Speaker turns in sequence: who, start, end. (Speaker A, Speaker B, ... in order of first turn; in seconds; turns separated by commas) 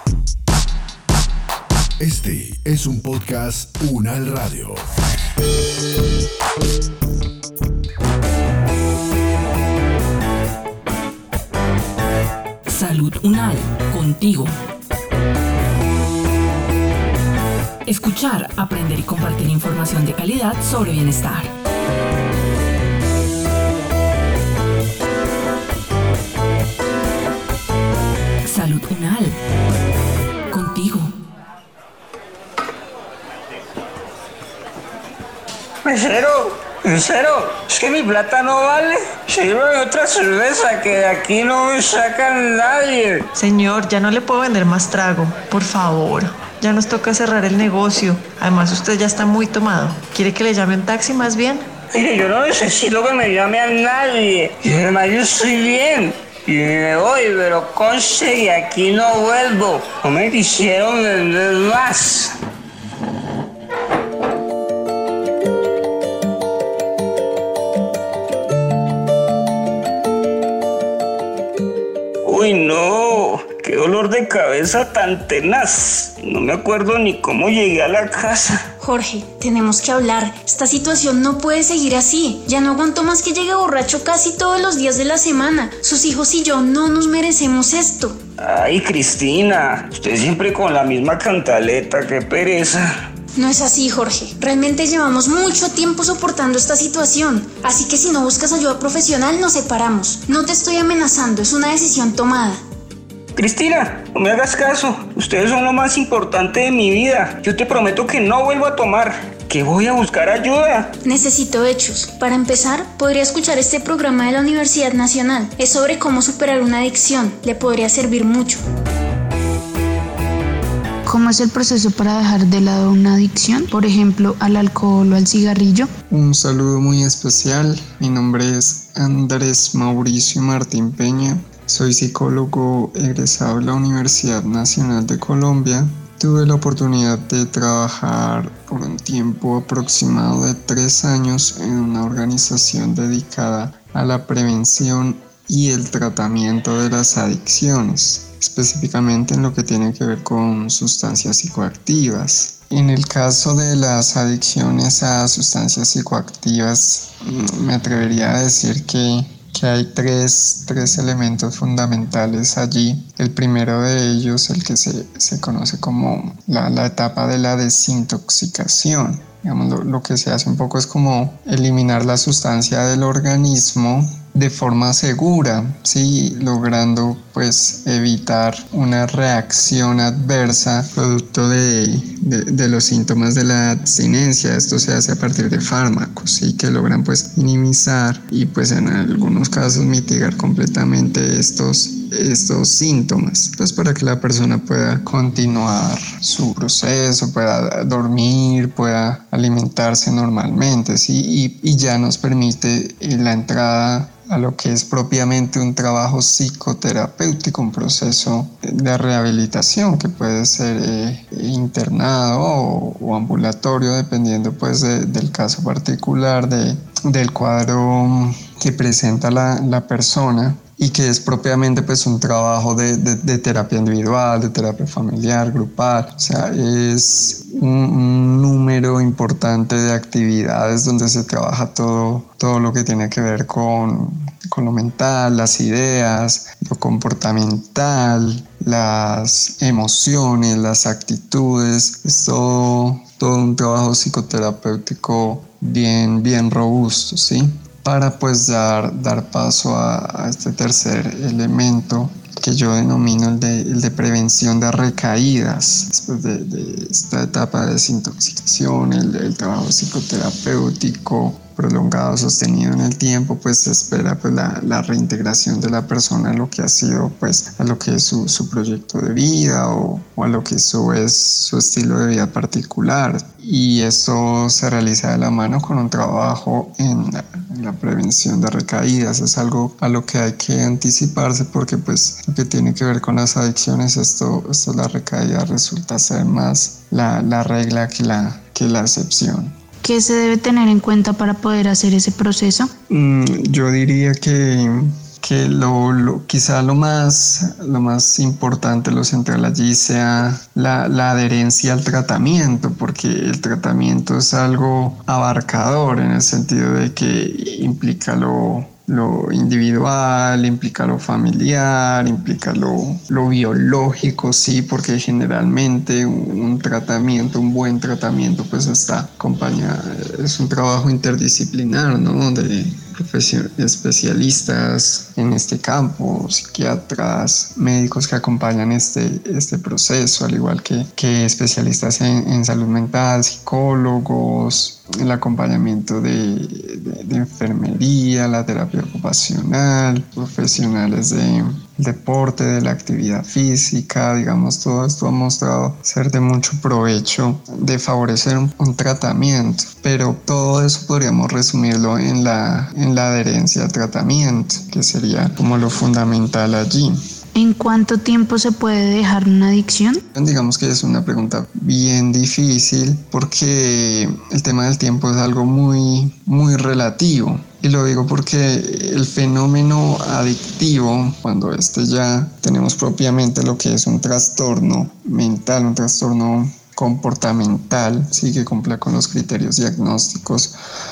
Speaker A: 2.0-4.8, Speaker B: 12.7-14.5, Speaker B: 17.8-21.5, Speaker B: 28.4-29.4, Speaker B: 30.5-31.1, Speaker C: 35.8-43.2, Speaker D: 43.3-51.7, Speaker C: 51.9-62.3, Speaker C: 72.2-78.6, Speaker E: 78.8-88.2, Speaker C: 88.4-93.0, Speaker E: 93.3-102.6, Speaker C: 103.3-111.0, Speaker E: 111.0-118.6, Speaker F: 121.0-125.9, Speaker G: 126.1-289.5, Speaker F: 289.8-292.7, Speaker G: 292.9-357.0, Speaker F: 357.3-360.0, Speaker G: 360.1-380.6